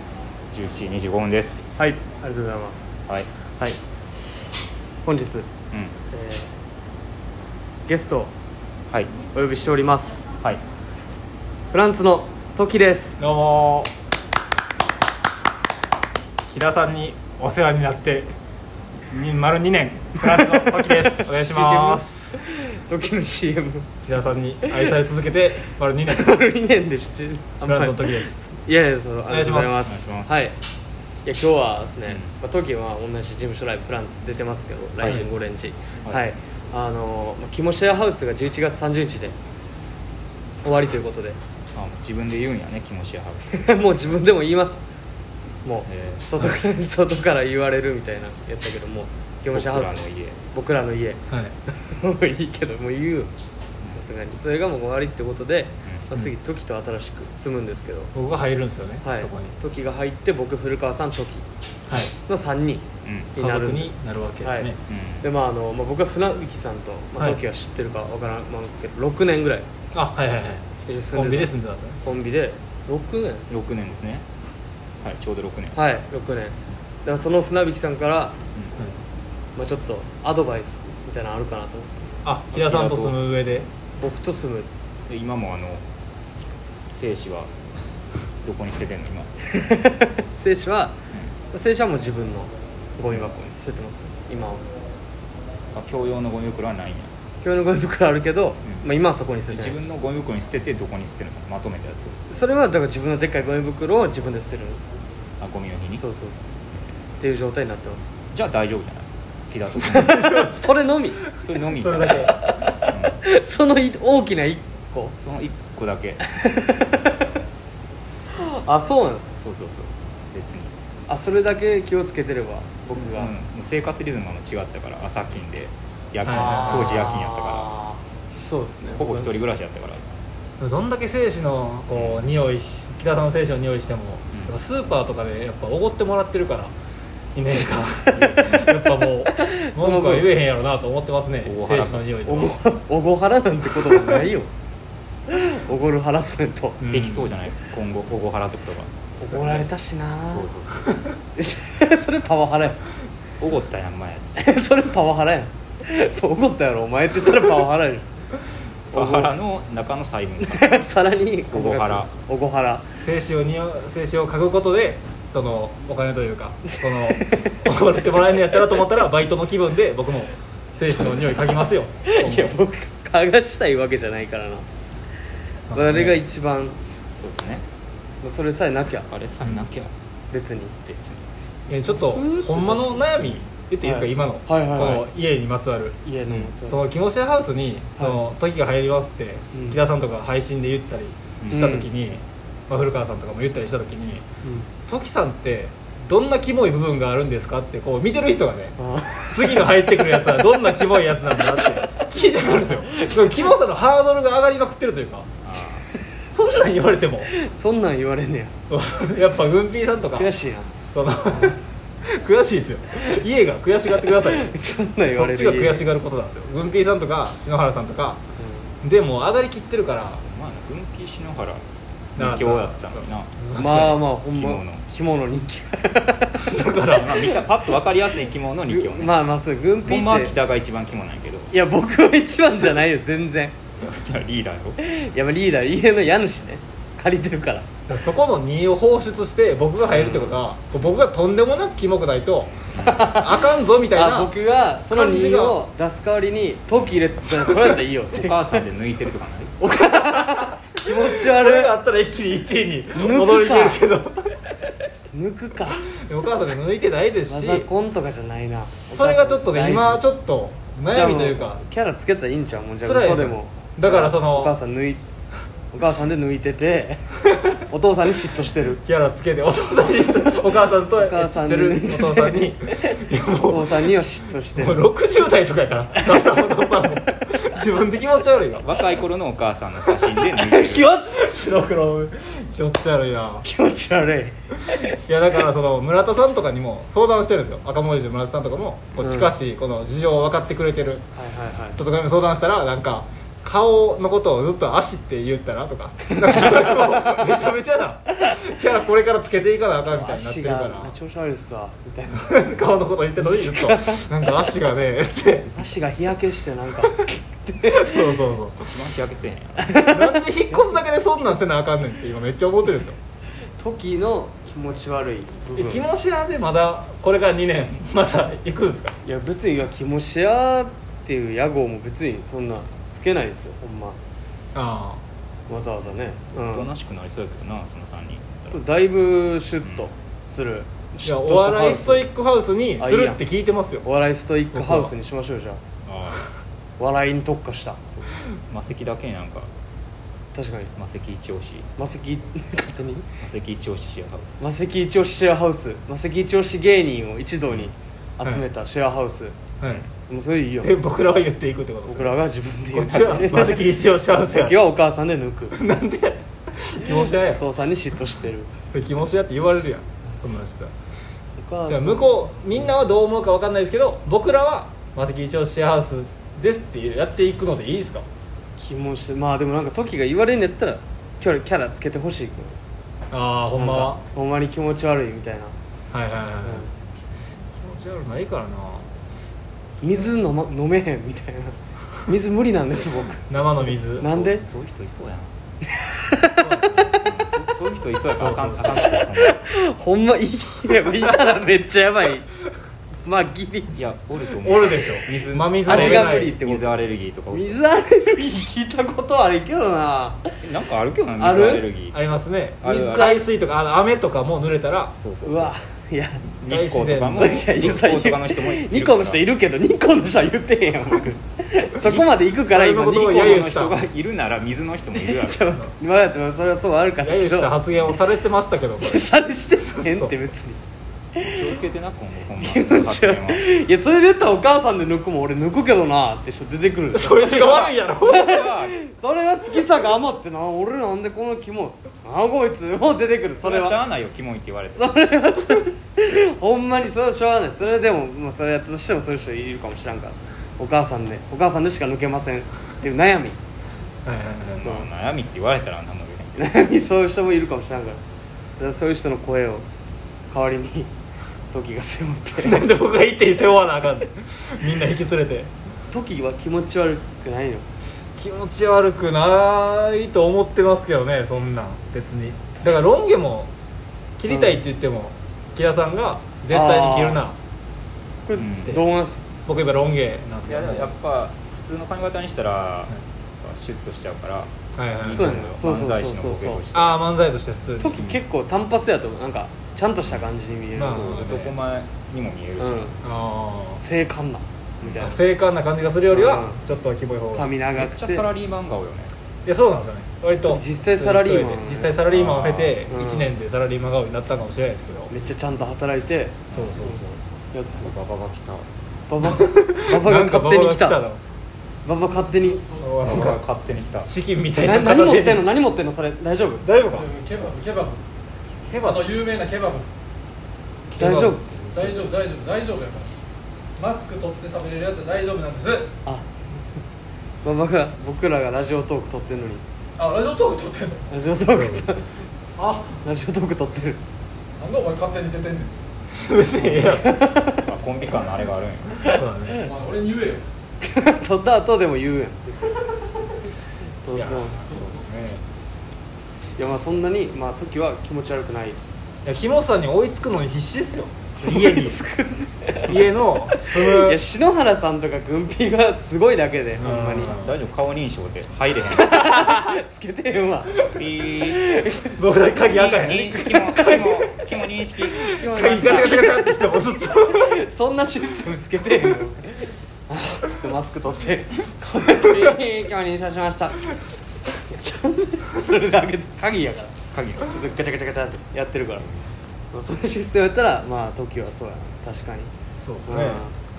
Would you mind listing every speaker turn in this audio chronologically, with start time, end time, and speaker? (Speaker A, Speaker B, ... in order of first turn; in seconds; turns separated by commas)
Speaker A: 0.5-1.6, Speaker B: 1.8-3.0, Speaker B: 5.0-5.5, Speaker B: 6.1-6.5, Speaker B: 7.9-8.3, Speaker B: 9.3-10.2, Speaker B: 11.7-13.2, Speaker C: 13.2-13.9, Speaker C: 16.5-18.3, Speaker C: 19.1-22.4, Speaker B: 20.4-23.9, Speaker C: 24.1-26.4, Speaker B: 26.1-30.5, Speaker C: 27.7-28.3, Speaker C: 29.3-29.9, Speaker A: 29.9-30.3, Speaker B: 31.2-39.4, Speaker A: 32.1-32.3, Speaker B: 40.6-41.4, Speaker A: 41.7-43.7, Speaker B: 43.5-44.8, Speaker B: 45.6-53.3, Speaker A: 45.9-46.2, Speaker A: 49.5-50.4, Speaker C: 51.3-51.5, Speaker B: 53.9-58.1, Speaker C: 58.1-59.5, Speaker B: 59.0-61.4, Speaker C: 61.9-62.1, Speaker B: 62.2-63.9, Speaker A: 63.0-63.3, Speaker C: 63.4-64.8, Speaker B: 64.4-64.7, Speaker A: 64.9-65.2, Speaker B: 65.2-69.7, Speaker C: 69.9-72.0, Speaker B: 70.9-73.5, Speaker A: 73.5-74.2, Speaker A: 75.0-75.8, Speaker B: 75.7-78.3, Speaker B: 79.5-82.1, Speaker C: 82.2-83.7, Speaker A: 82.5-83.1, Speaker B: 84.0-84.7, Speaker A: 85.1-85.8, Speaker A: 86.9-87.5, Speaker A: 88.4-89.3, Speaker B: 89.5-91.0, Speaker B: 91.5-94.6, Speaker A: 93.1-93.4, Speaker A: 95.7-97.1, Speaker B: 97.4-99.8, Speaker A: 99.5-102.2, Speaker B: 102.3-104.8, Speaker A: 105.4-106.0, Speaker B: 106.0-106.4, Speaker B: 107.2-108.2, Speaker A: 108.3-110.3, Speaker C: 109.8-110.6, Speaker B: 109.9-111.2, Speaker A: 111.4-113.2, Speaker C: 111.7-112.3, Speaker B: 112.1-115.1, Speaker A: 115.2-116.2, Speaker B: 116.2-117.2, Speaker B: 118.3-119.3, Speaker A: 119.4-120.7, Speaker B: 121.1-123.3, Speaker A: 123.0-127.7, Speaker C: 126.2-127.0, Speaker B: 126.3-129.3, Speaker A: 128.9-130.0, Speaker C: 130.6-136.7, Speaker A: 131.9-132.3, Speaker C: 137.3-142.6, Speaker A: 138.1-139.0, Speaker B: 139.3-140.3, Speaker A: 141.4-142.2, Speaker B: 142.2-144.5, Speaker B: 145.3-146.8, Speaker C: 146.8-147.3, Speaker A: 146.9-148.9, Speaker B: 149.2-150.5, Speaker A: 150.3-150.9, Speaker B: 151.3-152.8, Speaker A: 153.4-154.3, Speaker B: 154.3-158.1, Speaker B: 158.9-159.3, Speaker A: 158.9-160.8, Speaker B: 160.4-162.8, Speaker A: 161.5-162.1, Speaker C: 163.0-172.6, Speaker B: 167.1-167.6, Speaker B: 172.0-174.7, Speaker C: 175.7-176.2, Speaker B: 175.7-176.8, Speaker A: 177.2-177.6, Speaker B: 178.2-179.1, Speaker A: 179.1-179.9, Speaker C: 179.4-179.7, Speaker B: 180.3-180.8, Speaker A: 180.8-181.2, Speaker C: 181.7-186.0, Speaker B: 182.0-183.0, Speaker B: 183.8-185.0, Speaker B: 186.0-186.8, Speaker C: 186.6-194.2, Speaker B: 191.5-191.9, Speaker B: 194.4-194.7, Speaker C: 194.9-198.7, Speaker B: 198.8-199.5, Speaker C: 199.3-205.3, Speaker B: 202.4-203.1, Speaker A: 205.4-205.8, Speaker C: 206.3-207.3, Speaker B: 207.3-208.5, Speaker C: 208.7-210.3, Speaker B: 210.2-210.7, Speaker C: 210.9-214.5, Speaker B: 214.1-215.8, Speaker C: 215.1-218.2, Speaker B: 218.4-218.7, Speaker C: 218.8-220.2, Speaker A: 220.2-221.6, Speaker A: 222.2-223.3, Speaker C: 222.2-224.0, Speaker B: 223.5-226.6, Speaker A: 224.3-224.8, Speaker C: 226.4-227.3, Speaker A: 226.8-229.2, Speaker B: 228.7-230.3, Speaker A: 229.8-231.5, Speaker B: 231.5-233.5, Speaker A: 233.8-234.8, Speaker B: 234.8-237.7, Speaker C: 237.9-244.3, Speaker B: 239.9-240.4, Speaker A: 242.7-243.1, Speaker B: 242.8-248.5, Speaker C: 244.9-245.6, Speaker A: 248.1-249.5, Speaker B: 249.6-251.7, Speaker C: 250.8-254.3, Speaker B: 252.9-253.8, Speaker B: 255.1-255.8, Speaker C: 255.9-257.7, Speaker B: 257.3-260.0, Speaker C: 258.9-261.6, Speaker B: 260.9-265.0, Speaker C: 262.8-264.5, Speaker B: 265.7-268.8, Speaker C: 268.9-273.9, Speaker B: 270.9-272.9, Speaker B: 273.5-274.9, Speaker C: 274.5-278.7, Speaker A: 278.6-280.9, Speaker C: 280.0-283.4, Speaker B: 283.4-284.9, Speaker C: 284.9-291.1, Speaker B: 289.0-289.3, Speaker B: 291.1-291.8, Speaker C: 291.8-300.9, Speaker B: 296.1-297.4, Speaker B: 299.9-302.4, Speaker C: 302.2-305.5, Speaker B: 303.2-304.1, Speaker B: 305.4-308.2, Speaker C: 307.6-308.7, Speaker A: 308.6-309.8, Speaker B: 309.6-310.8, Speaker C: 309.8-312.9, Speaker B: 313.6-315.9, Speaker C: 315.6-319.0, Speaker B: 319.0-324.0, Speaker C: 324.5-325.0, Speaker B: 325.5-326.7, Speaker A: 326.4-328.6, Speaker B: 328.5-332.1, Speaker C: 331.0-333.9, Speaker B: 332.8-333.2, Speaker B: 333.8-335.6, Speaker C: 334.5-334.9, Speaker A: 335.9-336.3, Speaker B: 336.8-337.8, Speaker A: 337.9-339.5, Speaker B: 340.3-340.7, Speaker A: 340.8-341.7, Speaker B: 341.8-343.1, Speaker A: 343.2-344.4, Speaker B: 344.4-349.4, Speaker B: 350.1-350.7, Speaker C: 350.6-352.2, Speaker B: 351.9-355.6, Speaker C: 352.7-354.6, Speaker C: 355.5-357.4, Speaker B: 356.9-358.5, Speaker C: 358.7-360.7, Speaker B: 361.4-362.7, Speaker C: 361.7-368.0, Speaker B: 368.6-372.6, Speaker C: 373.1-374.0, Speaker B: 373.6-375.5, Speaker C: 375.9-376.7, Speaker B: 376.4-376.7, Speaker C: 377.6-378.9, Speaker B: 379.8-383.4, Speaker C: 383.3-384.1, Speaker B: 384.0-384.4, Speaker A: 384.0-385.3, Speaker B: 385.8-387.0, Speaker C: 386.4-386.9, Speaker A: 387.0-389.4, Speaker C: 388.1-388.8, Speaker B: 388.9-392.3, Speaker B: 393.0-393.8, Speaker A: 393.7-397.6, Speaker C: 394.4-396.4, Speaker B: 395.6-396.7, Speaker B: 397.3-400.3, Speaker A: 400.4-401.9, Speaker B: 401.1-401.7, Speaker C: 401.9-404.9, Speaker A: 402.6-403.2, Speaker B: 402.9-403.2, Speaker A: 405.0-405.5, Speaker B: 405.2-406.2, Speaker A: 406.4-409.2, Speaker C: 406.4-407.7, Speaker B: 407.1-413.8, Speaker A: 411.9-412.1, Speaker C: 412.5-413.8, Speaker A: 413.0-415.6, Speaker B: 414.9-417.9, Speaker C: 417.0-419.0, Speaker B: 418.8-420.6, Speaker C: 419.8-420.1, Speaker B: 421.1-421.5, Speaker A: 421.2-423.4, Speaker B: 422.4-433.8, Speaker C: 426.9-428.3, Speaker A: 427.2-428.8, Speaker A: 433.4-435.0, Speaker B: 434.7-443.4, Speaker C: 444.0-444.7, Speaker A: 444.6-446.4, Speaker B: 444.6-444.9, Speaker B: 446.4-448.0, Speaker B: 448.6-449.6, Speaker B: 450.3-450.9, Speaker B: 451.5-452.7, Speaker C: 452.4-455.5, Speaker B: 455.9-457.6, Speaker C: 458.2-463.5, Speaker C: 464.2-467.4, Speaker B: 464.3-464.6, Speaker B: 466.5-467.2, Speaker B: 468.3-469.2, Speaker A: 468.4-468.8, Speaker C: 469.4-470.9, Speaker A: 470.4-474.5, Speaker C: 474.8-475.4, Speaker A: 475.0-477.0, Speaker B: 475.1-476.6, Speaker C: 476.7-478.0, Speaker B: 477.8-481.2, Speaker C: 480.8-481.6, Speaker A: 480.8-483.0, Speaker B: 482.6-482.9, Speaker C: 483.0-483.8, Speaker B: 483.8-485.1, Speaker A: 484.8-485.2, Speaker C: 484.9-487.5, Speaker B: 486.1-486.6, Speaker B: 487.3-488.3, Speaker A: 487.8-489.1, Speaker C: 489.4-495.1, Speaker B: 490.4-492.0, Speaker A: 492.1-492.9, Speaker B: 492.9-493.3, Speaker B: 495.1-497.0, Speaker A: 496.5-496.8, Speaker C: 496.5-497.2, Speaker B: 497.5-497.9, Speaker A: 497.7-498.7, Speaker B: 499.1-501.0, Speaker C: 499.3-501.2, Speaker B: 501.8-502.6, Speaker C: 502.8-503.4, Speaker A: 503.0-504.1, Speaker C: 504.0-505.4, Speaker B: 504.6-506.6, Speaker C: 506.6-507.1, Speaker D: 507.0-508.0, Speaker C: 508.7-509.1, Speaker D: 508.8-509.9, Speaker C: 510.9-512.0, Speaker B: 511.0-511.4, Speaker D: 511.7-513.1, Speaker D: 513.8-515.9, Speaker B: 517.4-519.6, Speaker D: 520.0-521.0, Speaker B: 521.1-522.1, Speaker C: 521.5-521.9, Speaker B: 522.6-524.0, Speaker D: 524.6-525.7, Speaker C: 526.1-527.1, Speaker A: 526.4-529.0, Speaker B: 526.9-527.7, Speaker C: 529.0-529.6, Speaker D: 529.6-530.4, Speaker B: 530.8-532.8, Speaker B: 534.0-534.6, Speaker C: 534.1-535.4, Speaker B: 536.6-538.8, Speaker C: 539.2-542.0, Speaker B: 541.5-547.3, Speaker C: 542.8-544.2, Speaker C: 546.8-547.6, Speaker A: 547.3-549.3, Speaker B: 548.9-552.4, Speaker A: 550.8-551.6, Speaker C: 552.2-553.6, Speaker A: 552.6-556.0, Speaker B: 553.7-554.0, Speaker B: 555.3-563.8, Speaker C: 555.4-557.5, Speaker B: 564.6-569.1, Speaker A: 567.1-567.5, Speaker B: 569.7-572.5, Speaker C: 572.8-573.4, Speaker B: 573.1-573.5